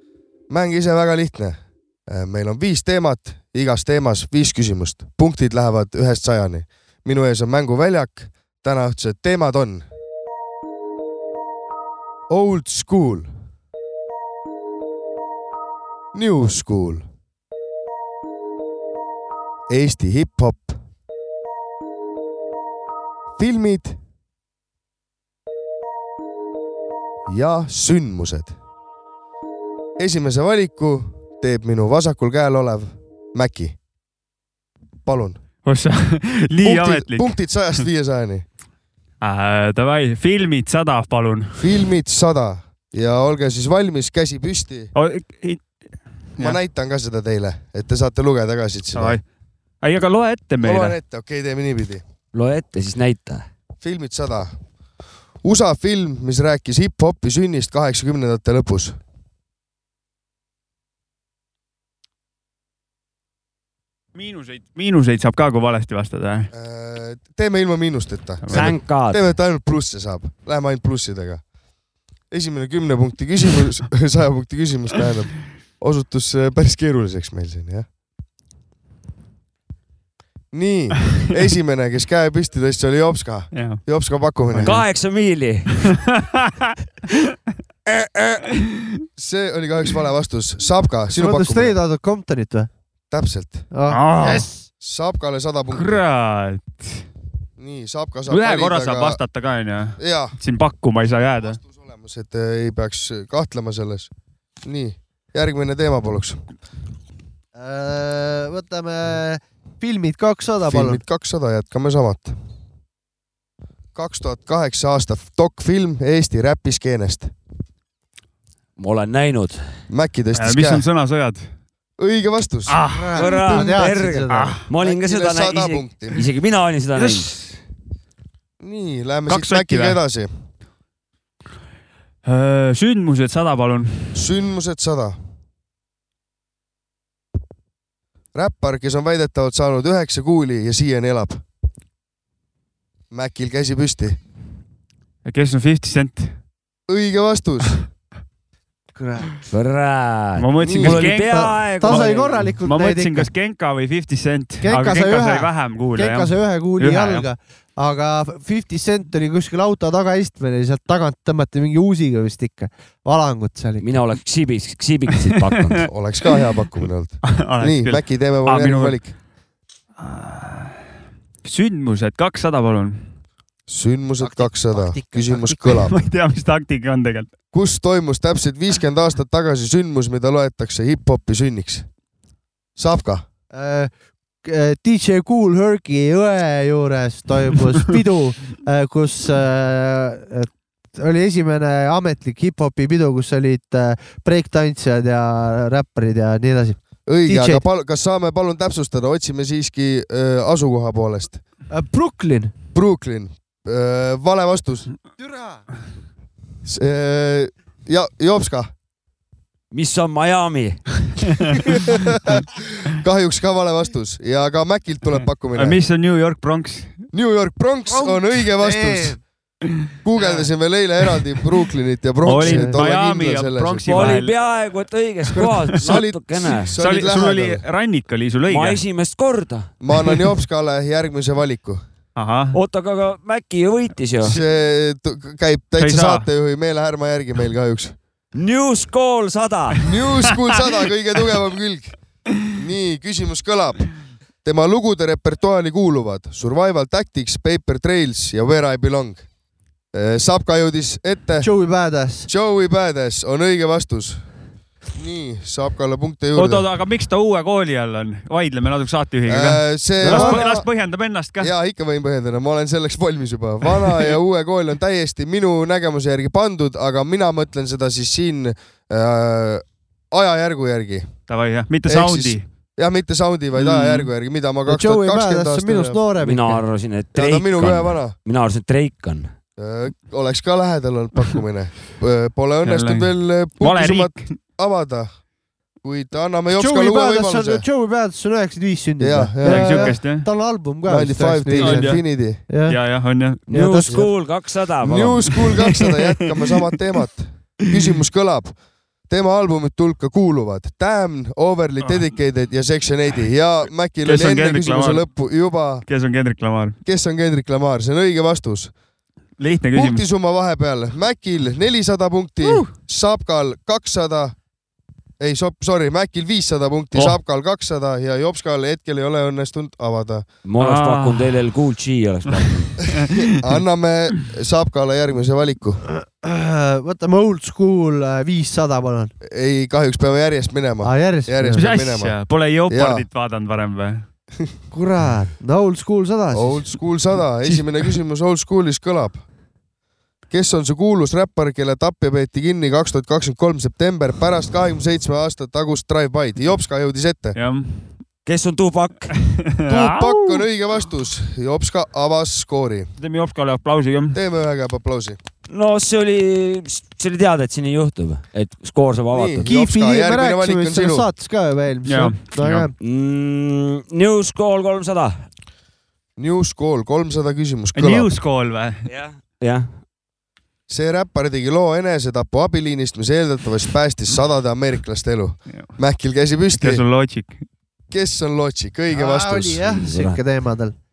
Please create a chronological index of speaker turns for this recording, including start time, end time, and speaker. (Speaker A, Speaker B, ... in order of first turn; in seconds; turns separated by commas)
Speaker A: 0.5-1.6, Speaker A: 2.1-9.8, Speaker A: 12.3-13.3, Speaker A: 16.1-17.0, Speaker A: 19.7-20.8, Speaker A: 23.4-24.0, Speaker A: 27.3-28.6, Speaker A: 30.0-33.7, Speaker A: 35.0-35.4, Speaker B: 35.6-37.8, Speaker A: 36.6-38.4, Speaker B: 39.2-41.5, Speaker A: 41.6-44.9, Speaker B: 44.9-45.6, Speaker A: 46.4-49.2, Speaker B: 48.9-49.2, Speaker B: 49.8-51.0, Speaker A: 50.6-52.0, Speaker C: 52.3-53.5, Speaker A: 53.8-54.5, Speaker A: 55.4-59.0, Speaker B: 64.1-66.5, Speaker A: 66.5-71.4, Speaker B: 68.4-68.7, Speaker C: 68.5-69.2, Speaker A: 72.3-77.9, Speaker A: 80.5-84.8, Speaker B: 83.5-83.8, Speaker C: 84.6-85.9, Speaker A: 87.8-88.5, Speaker A: 89.2-91.8, Speaker D: 91.1-92.7, Speaker A: 93.1-93.7, Speaker D: 93.7-94.7, Speaker B: 93.9-94.5, Speaker A: 94.8-96.0, Speaker B: 95.7-97.0, Speaker A: 97.6-99.2, Speaker B: 98.3-101.6, Speaker A: 100.0-100.3, Speaker A: 101.4-104.1, Speaker A: 104.6-106.4, Speaker D: 107.5-111.0, Speaker A: 110.7-112.3, Speaker A: 113.9-117.3, Speaker C: 118.8-119.6, Speaker A: 119.9-120.8, Speaker B: 120.3-121.5, Speaker A: 122.0-122.8, Speaker B: 122.7-123.7, Speaker D: 122.8-124.6, Speaker C: 123.1-127.3, Speaker B: 124.3-124.6, Speaker A: 124.7-126.3, Speaker B: 126.9-127.6, Speaker A: 128.6-130.3, Speaker B: 129.3-130.0, Speaker B: 132.2-134.1, Speaker A: 134.1-135.2, Speaker A: 138.3-141.4, Speaker A: 143.1-144.2, Speaker B: 145.2-146.3, Speaker A: 146.9-147.8, Speaker D: 148.9-149.3, Speaker C: 149.5-152.5, Speaker B: 150.4-157.2, Speaker A: 150.6-151.1, Speaker D: 151.3-153.3, Speaker D: 154.6-164.0, Speaker C: 163.8-165.9, Speaker A: 165.9-169.1, Speaker B: 167.3-169.0, Speaker B: 170.0-170.8, Speaker B: 171.4-173.1, Speaker A: 173.7-176.1, Speaker D: 174.2-175.7, Speaker B: 175.9-177.3, Speaker A: 177.5-181.8, Speaker A: 182.8-183.2, Speaker D: 183.5-183.9, Speaker D: 184.4-197.6, Speaker A: 197.1-201.4, Speaker D: 201.7-202.5, Speaker A: 202.7-204.9, Speaker D: 205.2-205.6, Speaker A: 206.6-208.7, Speaker C: 209.7-211.1, Speaker A: 212.2-215.8, Speaker B: 215.5-217.0, Speaker A: 217.1-219.2, Speaker D: 217.9-219.2, Speaker A: 220.0-224.2, Speaker B: 222.2-224.3, Speaker D: 222.4-222.7, Speaker C: 223.9-226.7, Speaker B: 225.3-226.0, Speaker A: 225.3-227.6, Speaker B: 226.8-228.8, Speaker C: 228.5-229.7, Speaker A: 229.8-231.8, Speaker B: 232.2-232.6, Speaker C: 232.5-234.3, Speaker A: 234.2-237.9, Speaker B: 235.8-236.2, Speaker C: 238.3-239.8, Speaker A: 239.8-241.9, Speaker A: 242.5-243.8, Speaker A: 244.4-249.2, Speaker A: 249.9-251.5, Speaker D: 251.4-252.3, Speaker A: 252.3-254.2, Speaker A: 254.9-256.6, Speaker B: 256.3-261.5, Speaker A: 259.2-260.7, Speaker D: 260.0-260.4, Speaker A: 261.4-271.1, Speaker B: 271.3-272.4, Speaker A: 271.9-276.0, Speaker B: 273.6-274.1, Speaker D: 274.7-276.6, Speaker C: 276.2-279.3, Speaker A: 277.1-278.1, Speaker A: 279.6-285.1, Speaker B: 282.6-284.3, Speaker A: 285.8-287.6, Speaker D: 286.5-291.9, Speaker A: 289.0-290.0, Speaker B: 289.4-290.2, Speaker A: 290.9-292.4, Speaker B: 291.6-292.0, Speaker D: 292.5-292.8, Speaker B: 292.7-293.4, Speaker C: 293.5-295.3, Speaker D: 293.5-294.0, Speaker A: 294.8-298.5, Speaker B: 295.6-296.1, Speaker A: 299.1-305.8, Speaker B: 304.0-305.0, Speaker B: 305.9-306.8, Speaker A: 306.9-308.7, Speaker B: 309.4-310.0, Speaker A: 309.7-314.3, Speaker A: 315.2-320.2, Speaker C: 320.4-322.8, Speaker B: 320.6-321.5, Speaker B: 322.3-323.3, Speaker A: 323.2-325.8, Speaker D: 325.9-329.1, Speaker A: 329.2-332.1, Speaker D: 330.8-331.6, Speaker B: 331.5-334.1, Speaker A: 332.7-333.0, Speaker D: 334.7-336.7, Speaker A: 336.3-339.2, Speaker A: 340.3-347.4, Speaker B: 347.4-347.9, Speaker C: 348.2-349.1, Speaker B: 349.5-350.4, Speaker A: 349.7-352.9, Speaker B: 353.0-354.2, Speaker A: 354.1-355.2, Speaker C: 355.5-359.5, Speaker A: 359.1-361.1, Speaker D: 359.4-362.7, Speaker B: 361.9-362.7, Speaker C: 362.8-365.2, Speaker A: 366.2-368.1, Speaker B: 367.7-368.9, Speaker C: 368.9-369.7, Speaker A: 370.7-376.8, Speaker B: 376.6-377.4, Speaker A: 377.9-379.8, Speaker D: 378.9-380.7, Speaker C: 379.7-380.2